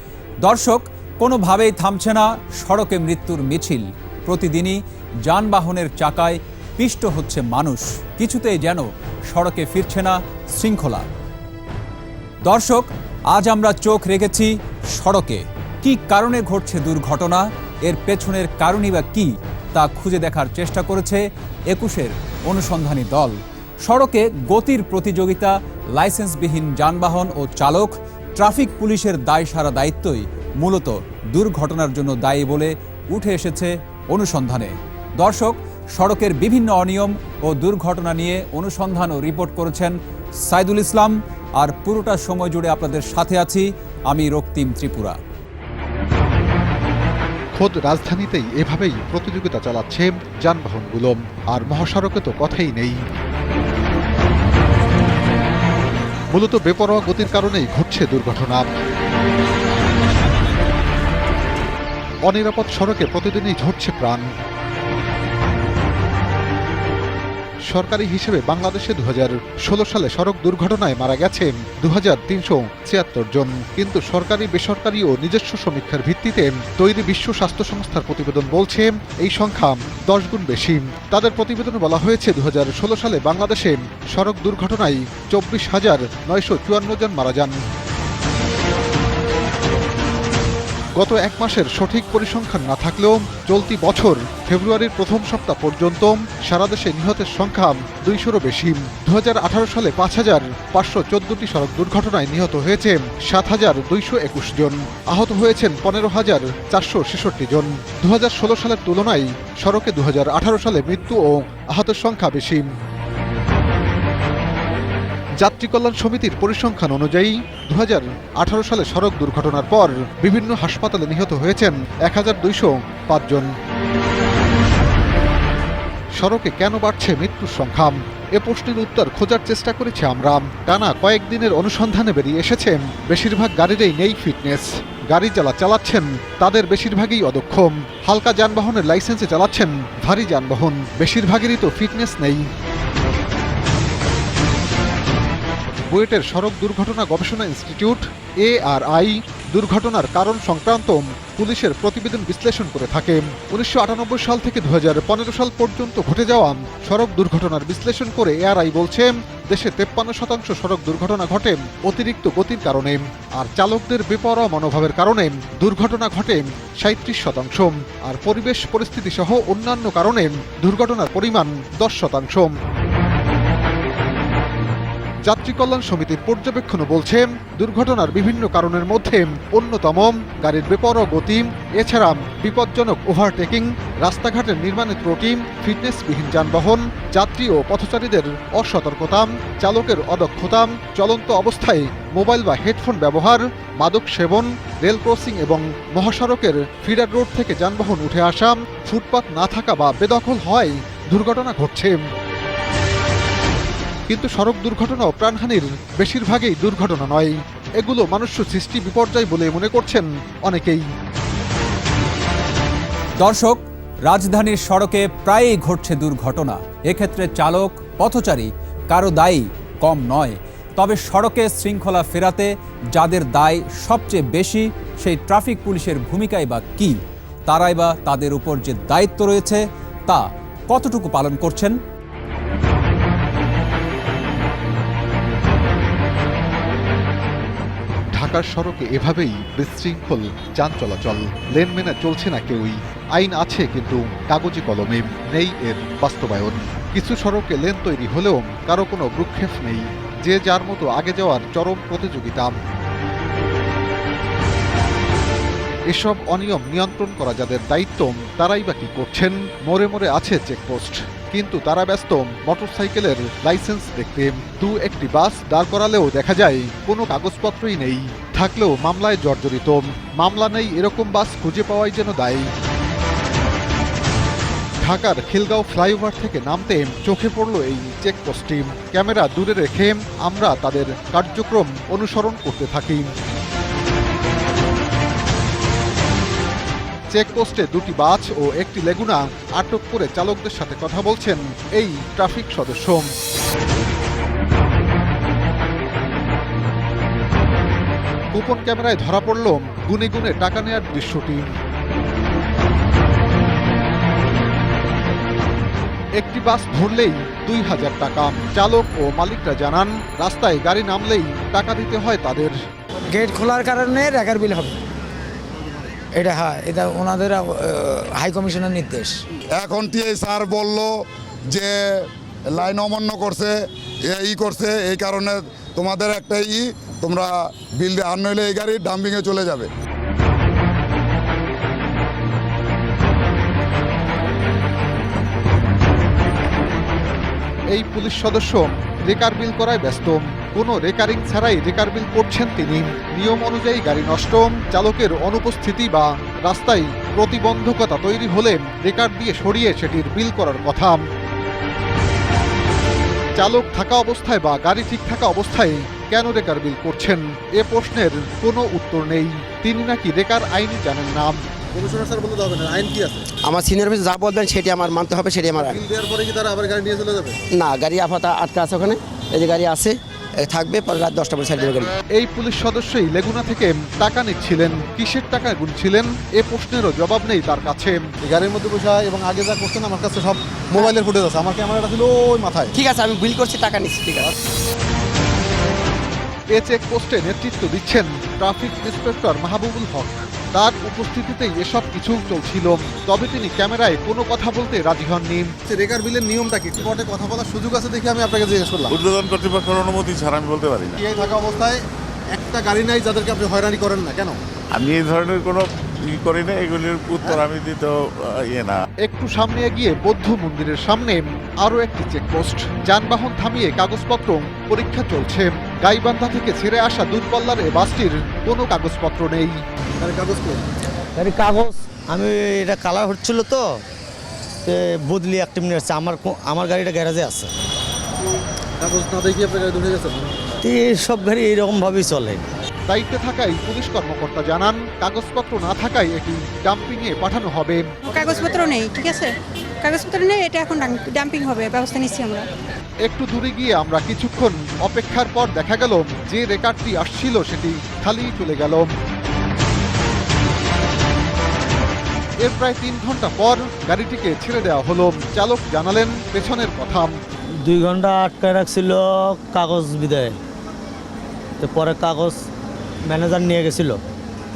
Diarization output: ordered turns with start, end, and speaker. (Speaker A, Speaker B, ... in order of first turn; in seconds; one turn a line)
Speaker A: 0.4-11.1
Speaker A: 12.4-45.2
Speaker B: 47.6-53.0
Speaker B: 56.3-58.7
Speaker B: 62.2-64.3
Speaker B: 67.7-87.6
Speaker B: 91.0-112.7
Speaker B: 115.4-123.5
Speaker B: 126.2-142.5
Speaker B: 145.9-172.5
Speaker B: 175.2-202.0
Speaker B: 204.1-210.8
Speaker A: 213.2-227.0
Speaker A: 227.5-231.8
Speaker B: 238.1-252.6
Speaker B: 255.9-272.5
Speaker B: 274.8-283.1
Speaker B: 287.1-293.1
Speaker B: 298.3-301.5
Speaker B: 306.2-312.6
Speaker C: 313.1-314.8
Speaker C: 316.1-319.2
Speaker D: 319.5-320.9
Speaker D: 321.5-321.8
Speaker D: 322.5-329.7
Speaker B: 337.7-351.0
Speaker B: 353.4-361.4
Speaker E: 361.8-363.3
Speaker F: 363.4-365.8
Speaker E: 365.5-367.4
Speaker F: 367.5-371.9
Speaker B: 372.1-378.0
Speaker E: 378.2-382.7
Speaker F: 382.7-384.3
Speaker B: 386.5-395.5
Speaker E: 395.7-399.0
Speaker G: 398.9-401.0
Speaker E: 401.0-401.8
Speaker E: 402.4-404.4
Speaker G: 404.8-408.8
Speaker B: 409.0-419.6
Speaker E: 420.0-420.6
Speaker H: 421.2-423.6
Speaker H: 424.6-427.5
Speaker E: 428.8-430.3
Speaker H: 430.6-432.4
Speaker B: 432.9-438.2
Speaker I: 438.1-439.3
Speaker I: 439.8-442.4
Speaker B: 443.1-448.9
Speaker B: 452.4-457.1
Speaker H: 457.6-460.4
Speaker H: 461.6-462.4
Speaker H: 463.1-464.0